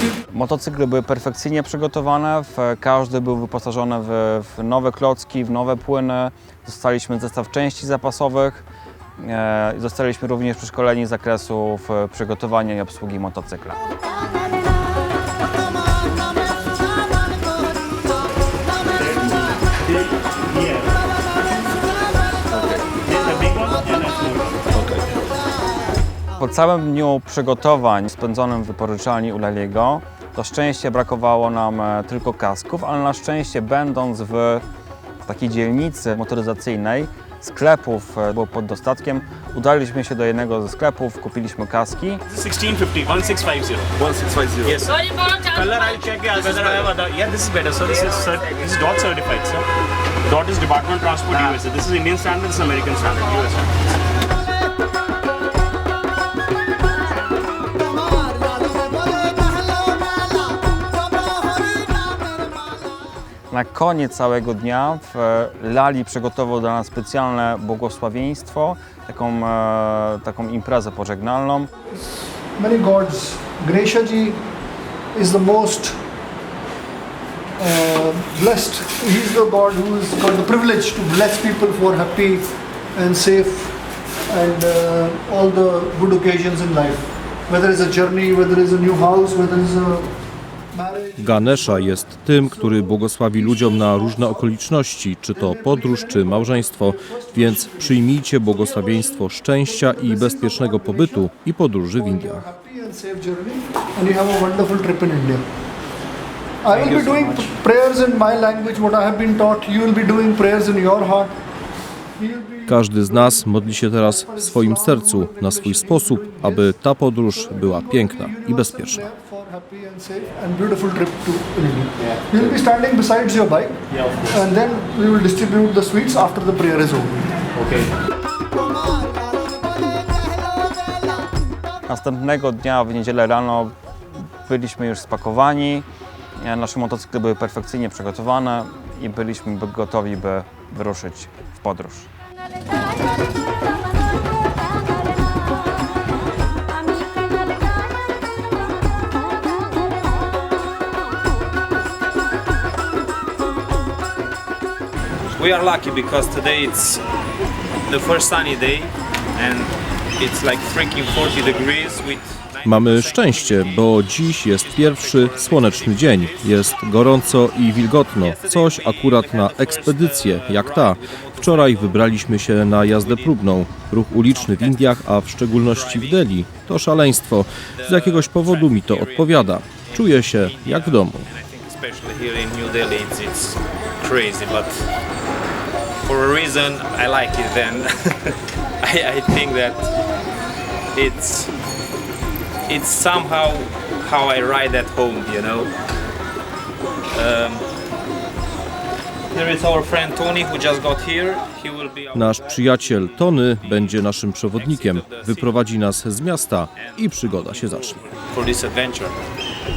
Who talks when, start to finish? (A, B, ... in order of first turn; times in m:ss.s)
0:00.3-0:08.6 A
0:09.2-0:13.8 A
0:19.0-0:19.3 B
0:20.5-0:20.8 B
0:23.0-0:25.0 B
0:26.4-0:34.6 A
0:35.2-0:42.2 A
0:42.3-0:49.6 B
0:50.3-0:53.7 B
1:03.5-1:11.7 A
1:11.9-1:14.4 C
1:15.1-1:16.0 C
1:17.6-1:30.1 C
1:30.7-1:45.4 C
1:31.2-1:42.5 D
1:46.6-1:51.3 C
1:52.2-2:07.4 C
1:52.7-1:59.1 D
2:02.0-2:02.5 B
2:03.9-2:04.3 B
2:07.6-2:07.9 B
2:11.9-2:13.7 A
2:14.4-2:15.9 A
2:16.4-2:22.1 A
2:35.4-2:37.0 E
2:37.9-2:53.6 E
2:42.6-3:01.3 D
2:54.2-2:56.6 E
2:57.8-3:04.9 E
3:06.0-3:09.9 E
3:10.9-3:11.5 E
3:12.7-3:15.7 E
3:17.1-3:17.6 E
3:19.3-3:25.8 E
3:22.1-3:28.0 D
3:26.7-3:29.2 E